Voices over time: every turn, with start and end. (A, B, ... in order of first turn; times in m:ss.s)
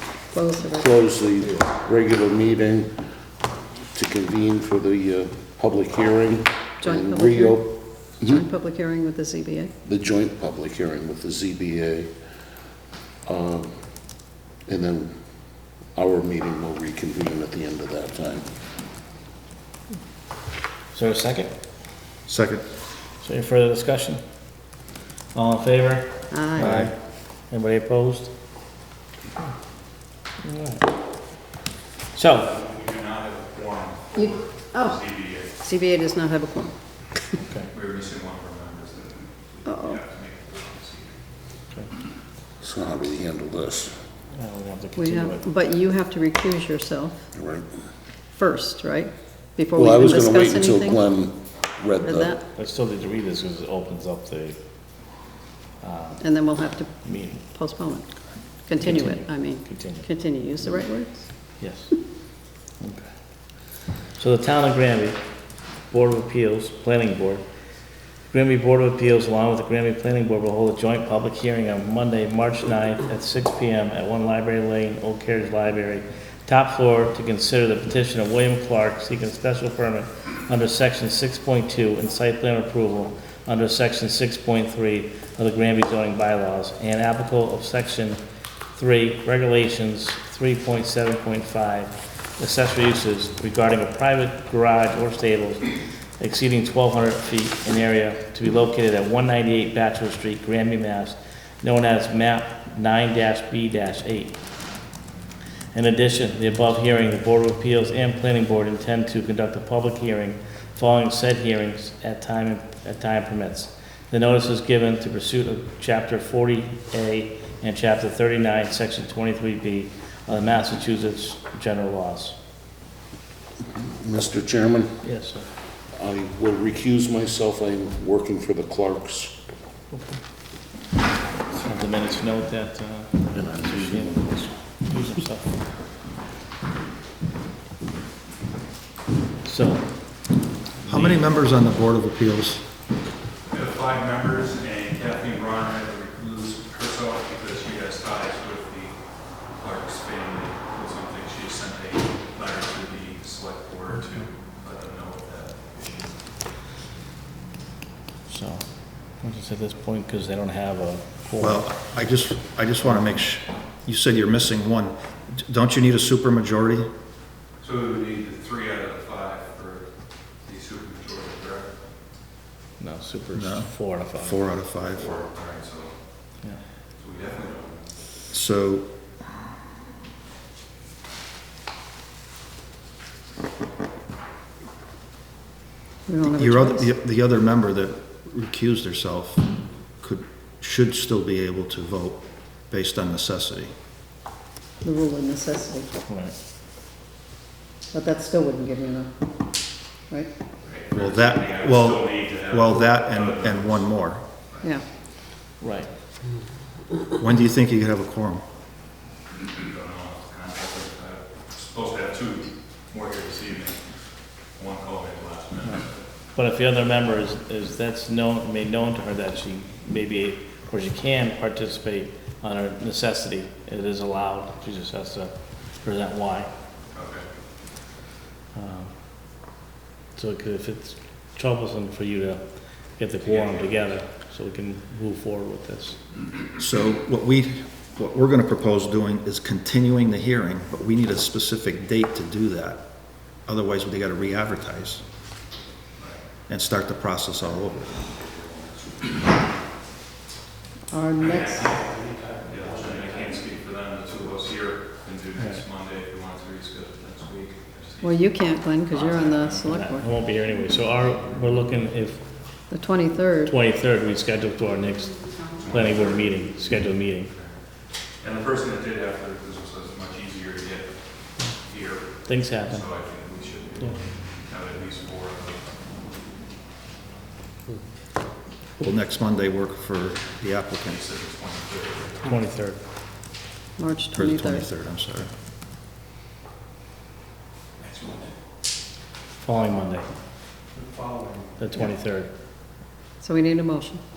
0:00.3-0:00.9 A
0:00.7-0:02.9 B
0:03.9-0:08.4 B
0:06.8-0:07.6 A
0:08.2-0:09.7 A
0:09.8-0:12.1 B
0:13.2-0:13.7 B
0:14.6-0:15.1 B
0:15.9-0:18.5 B
0:20.9-0:21.5 C
0:22.3-0:22.6 D
0:23.2-0:24.2 C
0:25.3-0:28.3 C
0:26.3-0:26.7 A
0:26.6-0:26.9 D
0:30.4-0:30.9 C
0:32.1-0:32.5 C
0:32.4-0:35.6 E
0:34.2-0:35.0 A
0:35.6-0:37.2 A
0:37.4-0:37.7 C
0:37.7-0:41.2 E
0:39.6-0:40.0 A
0:42.6-0:43.9 B
0:44.3-0:45.4 C
0:45.0-0:47.3 A
0:47.3-0:47.7 B
0:48.4-0:51.0 A
0:49.7-0:52.3 B
0:52.0-0:52.4 A
0:52.5-0:54.6 C
0:55.8-0:57.4 C
0:56.2-0:58.1 A
0:58.6-1:01.3 A
0:58.8-1:00.1 C
1:01.6-1:02.0 C
1:02.8-1:03.1 C
1:04.1-1:05.2 C
1:05.8-1:07.4 C
1:08.3-1:28.2 C
1:28.7-1:44.4 C
1:45.7-2:02.4 C
2:03.6-2:05.0 B
2:05.0-2:05.5 C
2:05.9-2:09.3 B
2:09.9-2:10.2 C
2:11.5-2:15.6 C
2:13.3-2:14.5 B
2:19.4-2:20.2 C
2:20.8-2:21.4 C
2:20.8-2:22.6 D
2:23.4-2:29.0 E
2:29.5-2:36.2 E
2:38.3-2:42.0 C
2:41.4-2:46.9 D
2:47.6-2:49.9 E
2:50.4-2:51.7 E
2:52.8-2:54.4 C
2:53.3-2:55.2 D
2:54.9-2:55.9 E
2:57.0-2:57.8 E
2:58.3-2:58.9 D
3:06.1-3:06.9 A
3:06.2-3:09.4 D
3:10.0-3:13.7 D
3:14.8-3:15.9 A
3:16.1-3:16.3 C
3:17.9-3:19.1 A
3:20.6-3:23.9 E
3:20.9-3:24.2 D
3:25.6-3:25.9 C
3:27.1-3:28.4 D
3:29.5-3:33.8 E
3:34.5-3:35.9 E
3:36.3-3:46.5 C
3:46.9-3:47.2 E
3:48.5-3:49.0 C
3:50.1-3:52.4 C
3:53.0-3:56.0 C
3:53.2-3:53.9 E
3:56.6-4:05.0 D
4:06.0-4:06.2 E
4:06.5-4:08.0 D
4:08.0-4:09.2 E
4:10.9-4:11.9 A
4:11.2-4:19.7 E
4:18.0-4:20.1 A
4:19.7-4:22.3 C
4:22.7-4:23.5 A
4:23.4-4:27.3 C
4:25.6-4:26.3 E
4:27.2-4:27.6 E
4:28.2-4:35.6 E
4:32.2-4:32.8 C
4:38.8-4:41.0 D
4:40.8-4:42.2 E
4:42.2-4:42.8 C
4:43.8-4:44.6 A
4:44.1-4:45.3 D
4:47.8-4:48.3 E
4:49.4-4:50.1 C
4:51.6-4:52.3 C
4:53.2-4:54.0 A